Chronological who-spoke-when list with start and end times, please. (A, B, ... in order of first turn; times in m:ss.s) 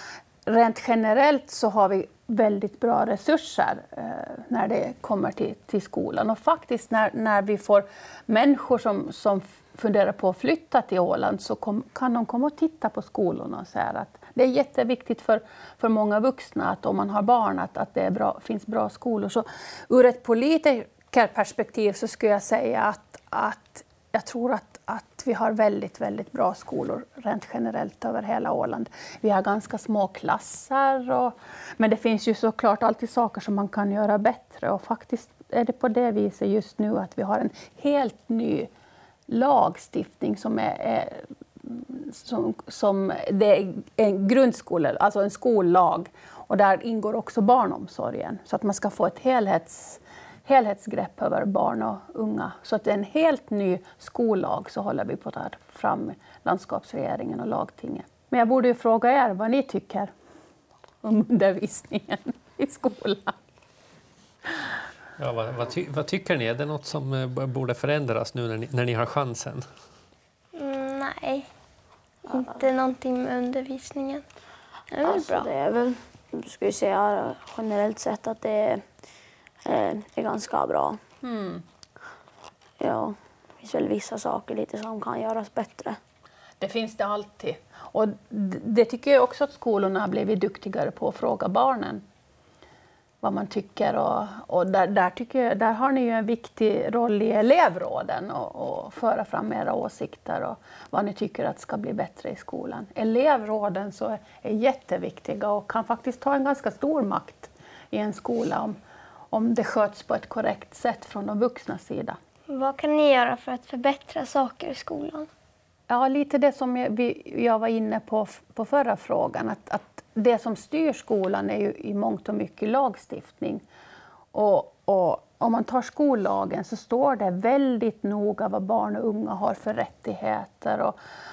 0:00.4-0:38.7 A
0:39.3-1:00.1 A
1:01.0-1:03.3 A
1:05.2-1:09.6 B
1:10.5-1:11.5 C
1:12.3-1:12.6 D
1:12.3-1:14.2 C
1:14.9-1:15.5 C
1:15.0-1:18.8 D
1:19.6-1:21.0 D
1:21.2-1:21.6 A
1:22.8-1:26.0 D
1:26.6-1:32.0 A
1:33.2-1:48.8 A
1:49.3-1:52.2 A
1:52.5-1:55.3 C
1:55.9-2:03.6 A
2:04.3-2:11.0 A